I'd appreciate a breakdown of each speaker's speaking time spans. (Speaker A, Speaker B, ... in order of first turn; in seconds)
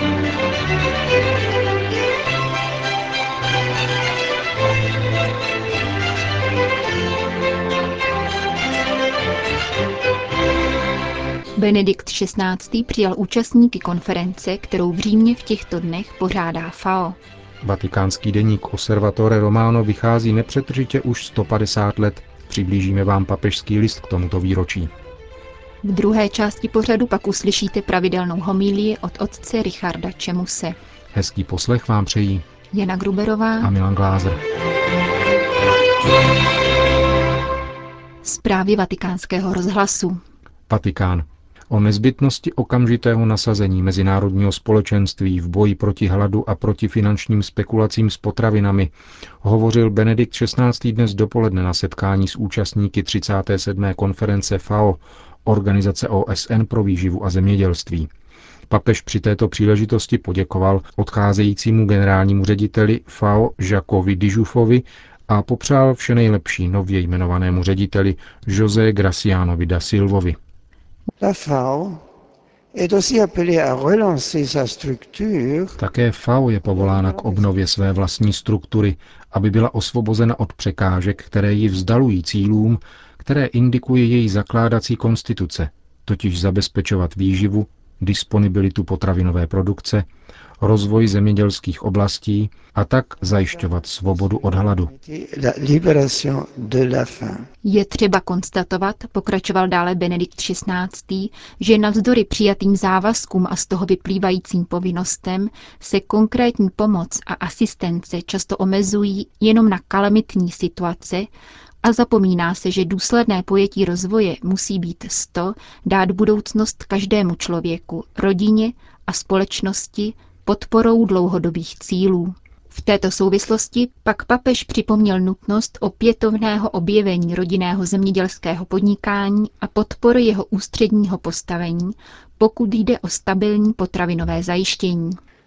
Speaker A: 11.6-17.2, 25.8-30.8, 32.7-33.7, 38.2-40.2, 97.6-111.3, 111.8-135.2
Speaker B: 17.6-24.9, 31.1-32.4, 33.6-34.4, 40.7-58.1, 58.7-70.4, 75.8-90.1, 90.6-94.9
Speaker C: 71.2-72.0, 72.7-75.8, 76.6-77.5, 93.2-97.5